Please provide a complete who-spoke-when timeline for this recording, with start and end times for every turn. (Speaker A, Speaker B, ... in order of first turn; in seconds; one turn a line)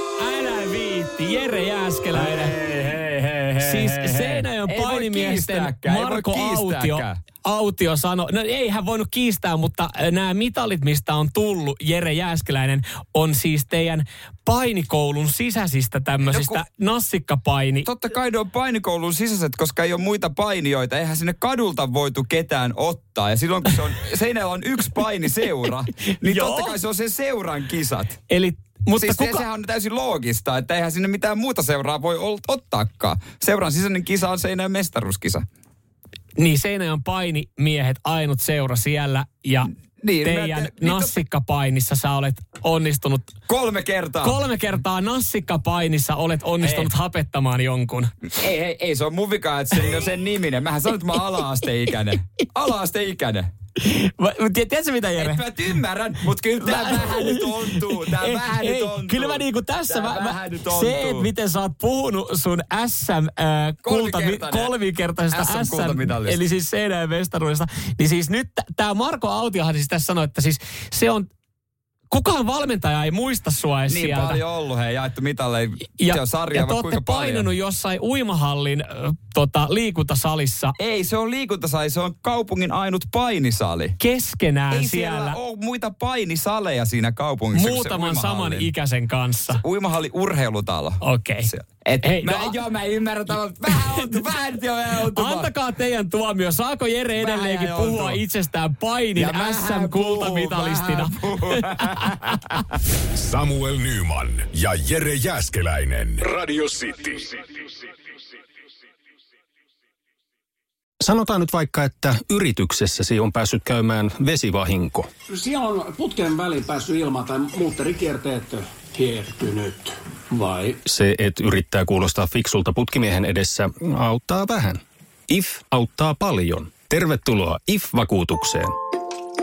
Speaker A: 0.2-2.5
Speaker B: 2.1-7.2
Speaker A: 3.6-17.9
Speaker B: 16.3-16.6
Speaker B: 17.9-28.2
Speaker A: 26.3-26.8
Speaker A: 28.3-29.4
Speaker B: 29.0-35.5
Speaker A: 36.4-39.7
Speaker B: 40.0-41.2
Speaker A: 40.2-43.3
Speaker B: 43.5-44.4
Speaker A: 44.2-48.1
Speaker B: 46.6-46.9
Speaker B: 48.4-53.5
Speaker A: 53.8-55.4
Speaker B: 55.2-61.3
Speaker A: 56.6-71.3
Speaker B: 63.8-64.7
Speaker B: 65.3-66.4
Speaker A: 72.1-74.4
Speaker B: 73.9-77.5
Speaker A: 76.0-80.8
Speaker B: 80.8-84.0
Speaker A: 84.0-85.4
Speaker B: 84.7-88.7
Speaker A: 87.5-89.6
Speaker B: 89.5-95.5
Speaker A: 91.0-91.5
Speaker A: 92.0-92.5
Speaker A: 95.1-102.0
Speaker B: 97.2-98.2
Speaker B: 99.2-102.4
Speaker C: 103.2-107.2
Speaker D: 111.0-115.1
Speaker E: 115.3-120.8
Speaker D: 120.9-128.7